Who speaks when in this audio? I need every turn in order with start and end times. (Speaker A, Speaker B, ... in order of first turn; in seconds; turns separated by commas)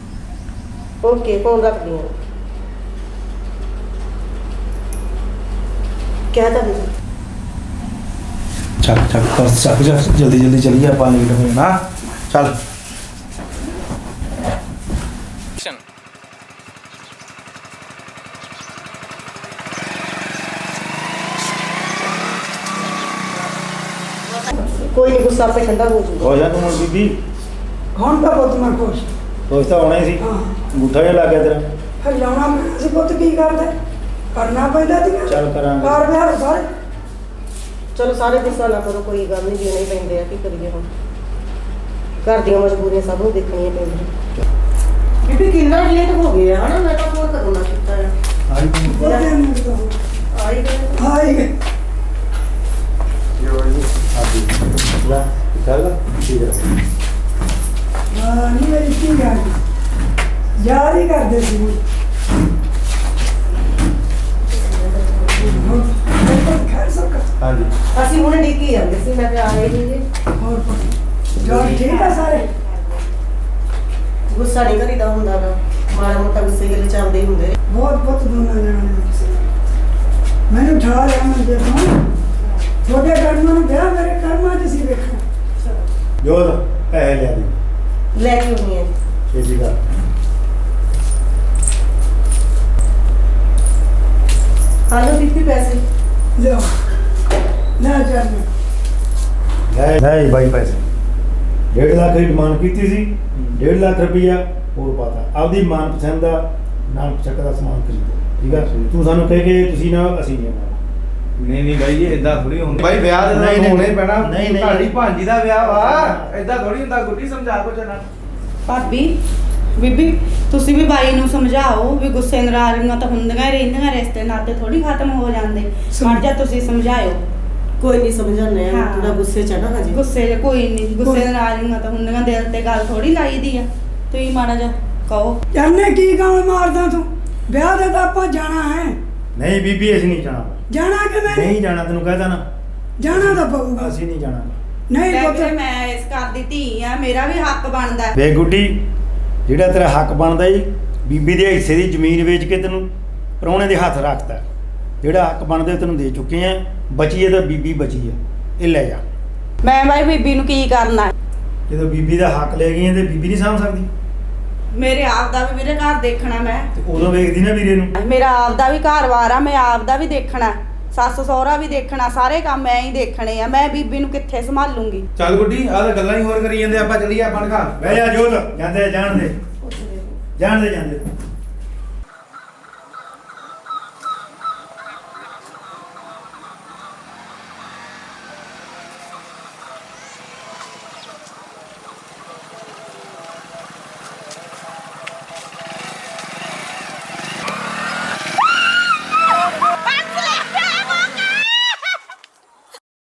Speaker A: 1.0-2.1, Speaker A: 6.3-6.9, Speaker B: 8.8-11.8, Speaker A: 24.5-26.4, Speaker C: 26.2-27.1, Speaker D: 28.0-29.1, Speaker C: 29.5-31.6, Speaker D: 30.2-30.6, Speaker D: 32.0-33.7, Speaker D: 34.3-36.7, Speaker C: 35.3-36.1, Speaker A: 38.0-40.9, Speaker A: 42.2-44.1, Speaker A: 45.2-48.1, Speaker C: 48.5-49.2, Speaker D: 48.9-50.0, Speaker A: 48.9-49.3, Speaker A: 50.3-51.0, Speaker D: 51.0-51.5, Speaker C: 53.6-56.7, Speaker D: 58.1-59.6, Speaker D: 60.6-61.8, Speaker A: 64.5-65.6, Speaker D: 65.5-67.3, Speaker A: 67.9-70.0, Speaker D: 70.4-72.4, Speaker E: 71.6-72.5, Speaker A: 74.3-77.6, Speaker D: 77.7-79.5, Speaker D: 80.5-82.0, Speaker D: 82.8-85.2, Speaker A: 85.6-85.9, Speaker C: 86.2-87.6, Speaker A: 88.1-88.9, Speaker C: 89.3-89.8, Speaker A: 94.9-95.8, Speaker D: 96.4-96.7, Speaker D: 97.8-98.5, Speaker C: 99.7-100.8, Speaker C: 101.7-110.8, Speaker B: 108.5-108.9, Speaker B: 111.4-118.0, Speaker C: 113.2-114.9, Speaker C: 115.5-116.4, Speaker E: 118.7-119.2, Speaker E: 119.8-127.2, Speaker D: 126.0-126.2, Speaker A: 127.8-130.0, Speaker E: 128.7-129.2, Speaker E: 129.9-135.4, Speaker D: 131.0-131.3, Speaker D: 135.5-139.0, Speaker C: 139.4-140.6, Speaker D: 140.7-141.5, Speaker C: 141.3-142.4, Speaker D: 143.0-143.9, Speaker C: 143.1-144.6, Speaker D: 144.9-145.5, Speaker E: 145.1-148.2, Speaker C: 148.2-148.8, Speaker C: 149.5-152.9, Speaker C: 153.4-154.4, Speaker C: 155.0-159.0, Speaker E: 159.6-161.1, Speaker C: 161.7-163.9, Speaker E: 164.7-166.7, Speaker C: 166.8-167.9, Speaker E: 168.0-175.1, Speaker B: 175.2-178.0, Speaker C: 177.8-179.4, Speaker A: 179.6-180.2, Speaker C: 180.4-181.1, Speaker E: 199.9-200.7